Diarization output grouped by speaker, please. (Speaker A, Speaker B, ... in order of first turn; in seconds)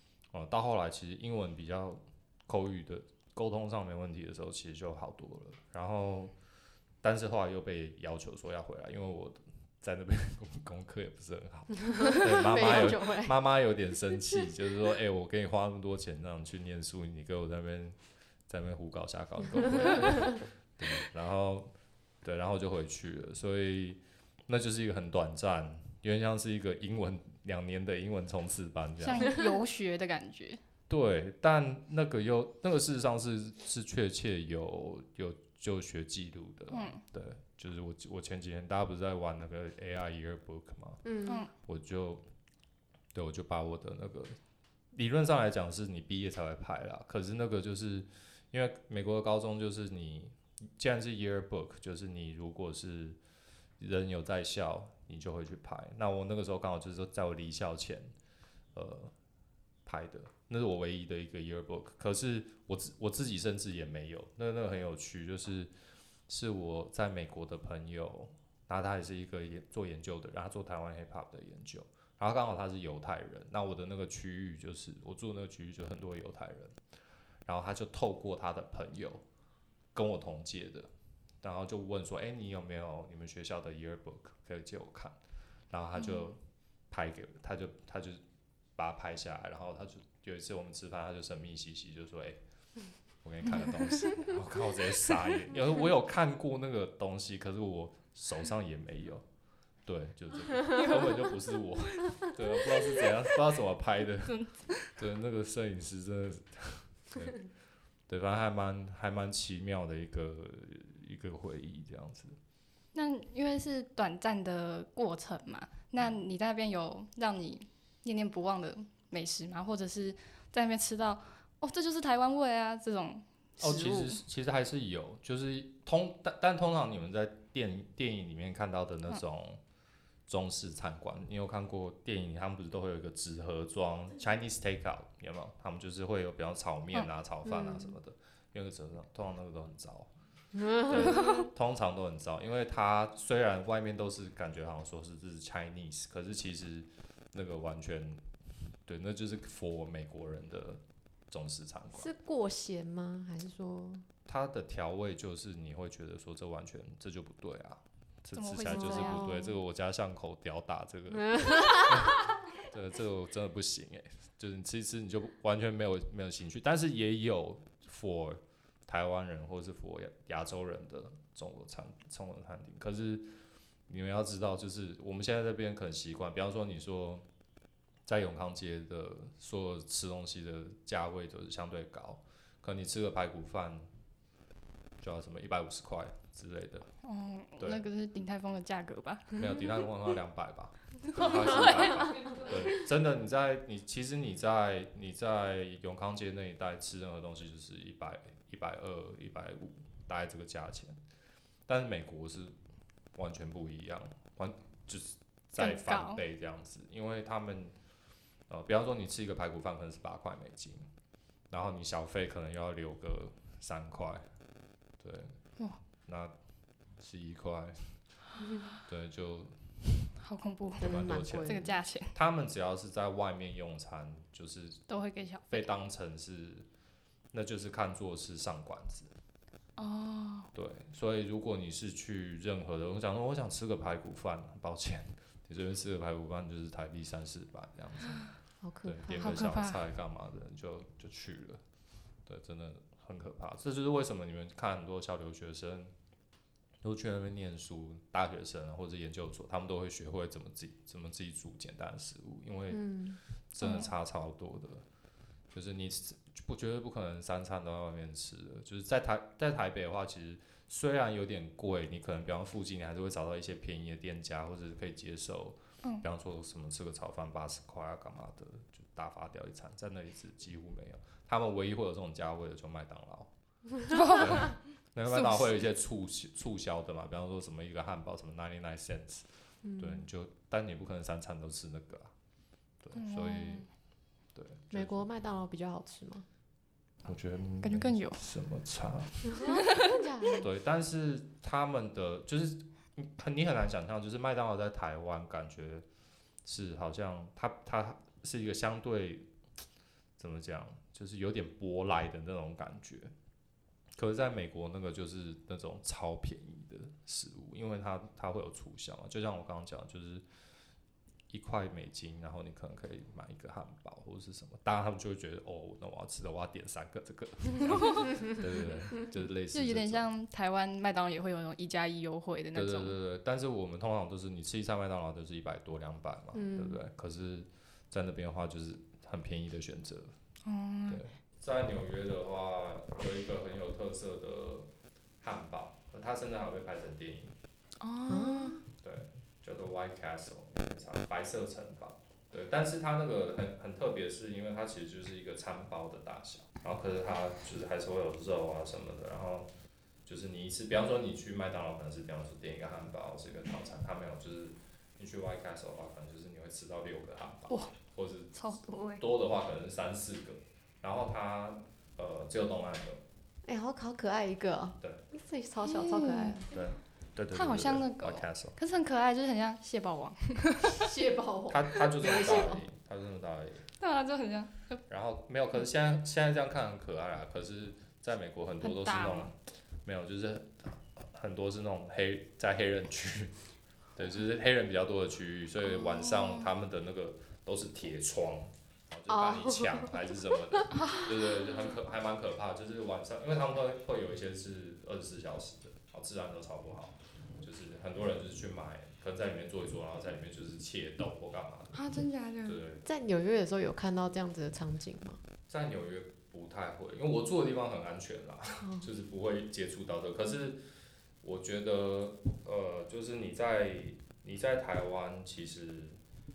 Speaker A: 0.3-6.3, 7.0-17.9, 18.5-21.7, 22.2-29.3, 30.9-41.0, 41.6-42.2, 43.1-44.4, 44.9-53.2, 53.8-58.1, 58.7-59.1, 59.8-65.7, 66.3-76.8, 77.5-79.2, 79.9-80.9, 81.4-85.2, 85.7-86.4, 86.9-88.2, 88.8-92.4, 93.2-99.2, 99.8-107.5, 108.1-112.4, 123.6-129.6, 130.3-140.1, 140.7-152.1, 154.2-177.2, 178.1-183.9, 185.0-186.9, 189.3-201.0, 201.7-202.5, 203.1-207.7, 208.5-210.8, 211.5-214.2, 215.0-215.5, 216.0-216.3, 217.0-218.2, 218.8-220.1, 220.8-224.8, 225.5-226.7, 227.3-229.1, 230.5-241.6, 242.2-245.9, 246.8-254.8, 255.5-273.3, 274.2-282.1, 282.8-283.7, 284.3-285.1, 287.0-289.4, 290.4-295.8, 296.4-299.3, 300.2-303.1, 304.0-310.2, 311.3-320.1, 322.5-330.1, 330.9-334.7, 335.2-337.3, 338.8-349.5, 350.0-363.0, 366.5-368.6, 371.5-373.7, 374.9-401.8, 402.4-402.8, 405.5-410.6, 411.2-416.0
Speaker B: 11.9-13.4, 41.0-41.4, 137.4-138.0, 140.5-141.3, 151.9-154.1, 158.7-159.6, 161.2-162.1, 220.8-221.7, 238.6-239.5, 252.7-253.2, 279.6-280.1, 284.7-286.3, 289.2-290.5, 326.3-326.8, 338.1-338.6, 363.4-366.4, 370.8-372.6, 389.1-390.1, 402.8-405.2, 408.6-408.9
Speaker C: 29.0-30.6, 36.7-37.0, 86.0-86.3, 93.5-94.1, 100.7-102.3, 104.2-105.0, 112.9-124.2, 141.1-141.4, 158.3-159.3, 187.0-189.7, 191.1-192.5, 205.6-206.2, 220.2-222.1, 224.9-225.7, 229.8-230.5, 239.2-239.8, 253.6-253.9, 273.9-275.6, 282.9-283.7, 287.6-288.2, 317.6-318.1, 319.5-322.9, 330.4-331.0, 337.8-338.6, 358.4-359.0, 365.6-366.5, 367.3-370.8, 373.8-374.8, 378.6-379.3, 385.7-386.5, 390.7-391.0, 401.7-402.6